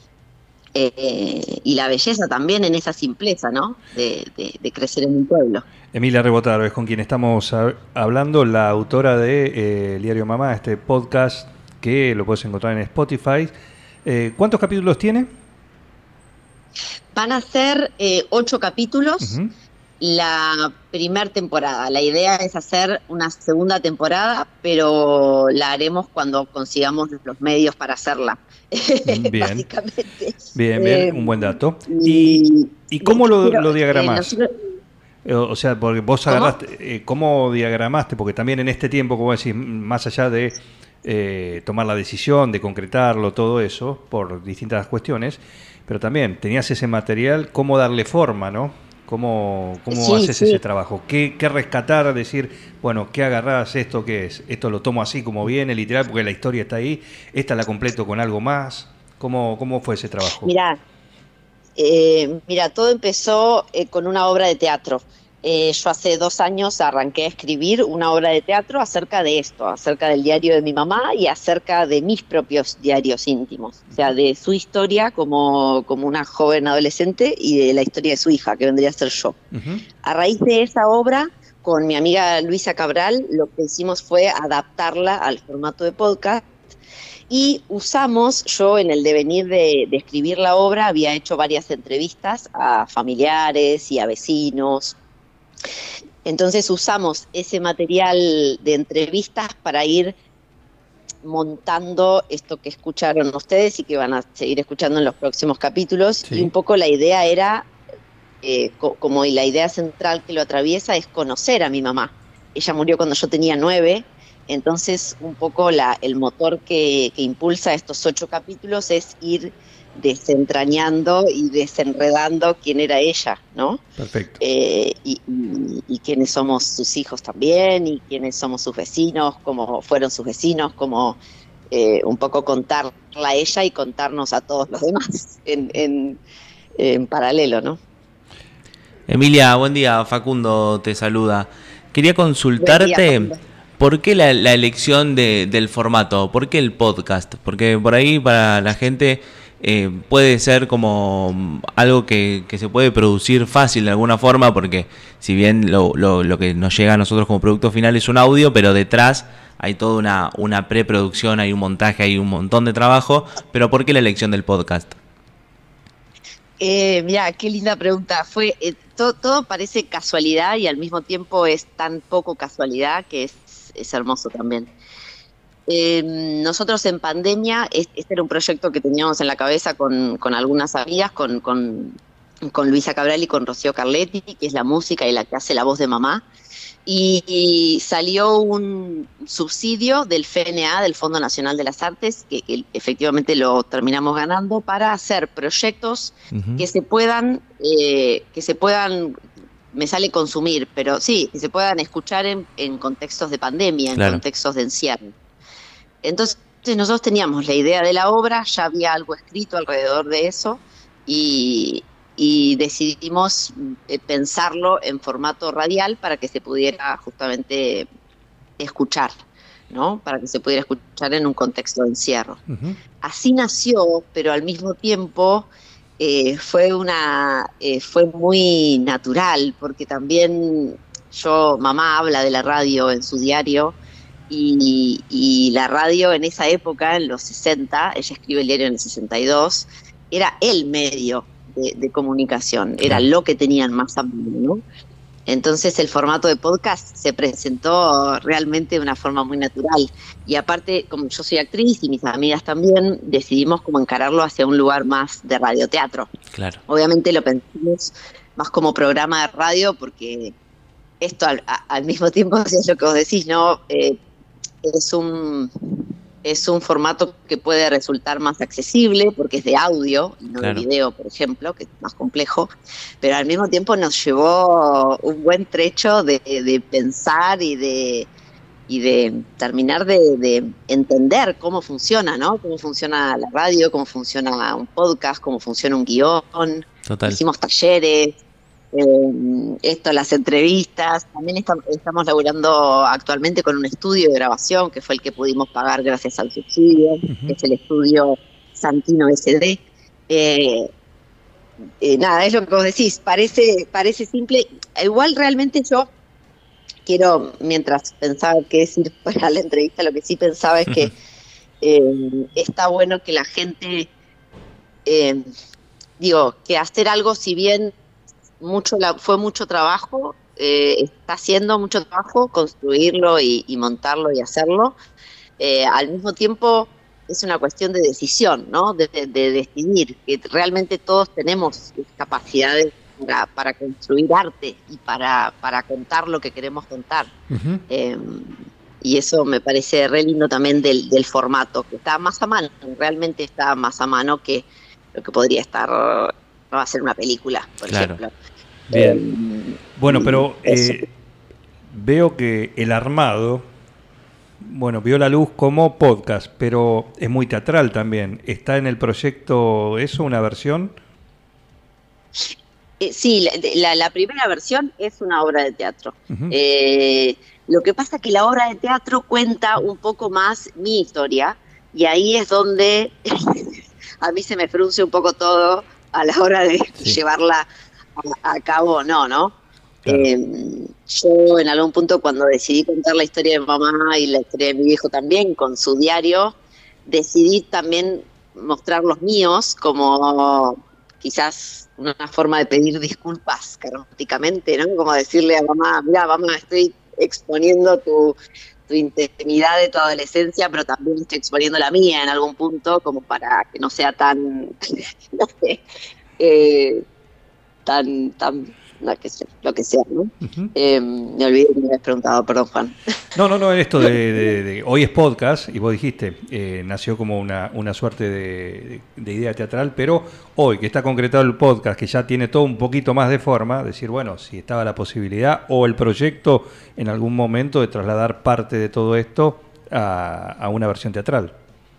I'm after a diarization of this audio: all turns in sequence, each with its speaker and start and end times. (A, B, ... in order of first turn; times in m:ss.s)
0:00.8-0:05.6 A
0:05.9-0:15.3 B
0:17.1-0:19.4 A
0:19.2-0:19.5 B
0:20.0-0:34.5 A
0:29.1-0:29.7 B
0:30.5-0:34.4 B
0:35.2-1:00.5 B
0:36.3-0:36.6 A
0:49.9-0:50.6 A
1:00.3-1:00.8 A
1:01.8-1:19.4 A
1:19.5-1:19.8 B
1:20.0-1:26.6 A
1:27.3-1:35.0 A
1:36.2-1:40.2 A
1:41.2-1:47.7 A
1:46.3-1:46.5 B
1:48.4-2:03.8 A
2:04.0-2:04.4 B
2:04.4-2:11.2 A
2:11.7-2:16.2 A
2:16.8-2:17.8 A
2:19.1-2:45.0 C
2:22.6-2:23.4 A
2:46.6-2:54.7 A
2:55.7-3:06.2 A
3:06.9-3:19.2 A
3:16.3-3:16.7 C
3:19.7-3:25.1 A
3:24.0-3:24.2 C
3:26.0-3:37.9 A
3:38.6-3:39.2 A
3:39.7-3:42.4 A
3:42.5-3:42.8 B
3:43.0-3:53.8 A
3:54.3-4:04.6 A
4:05.3-4:16.1 A
4:16.3-4:16.6 C
4:16.7-4:20.3 A
4:21.0-4:24.0 A
4:24.6-4:32.5 A
4:30.4-4:30.7 C
4:33.0-4:38.1 A
4:38.7-4:48.2 A
4:46.9-4:47.2 C
4:48.7-5:00.7 A
4:57.1-4:57.4 B
5:01.8-5:05.9 A
5:06.8-5:10.9 A
5:11.6-5:13.9 A
5:14.8-5:15.3 A
5:16.0-5:17.7 A
5:18.4-5:24.7 A
5:25.4-5:37.1 A
5:37.3-5:37.6 B
5:37.7-5:48.1 A
5:47.6-5:48.0 C
5:48.7-5:50.8 A
5:49.8-5:50.9 B
5:51.7-5:53.5 B
5:54.4-6:00.8 B
6:02.8-6:17.5 A
6:06.1-6:06.4 B
6:18.0-6:19.4 A
6:19.9-6:38.2 A
6:38.7-6:45.6 A
6:46.2-6:46.8 A
6:47.7-6:52.7 A
6:50.2-6:50.5 B
6:53.2-7:11.3 B
6:53.8-6:54.3 A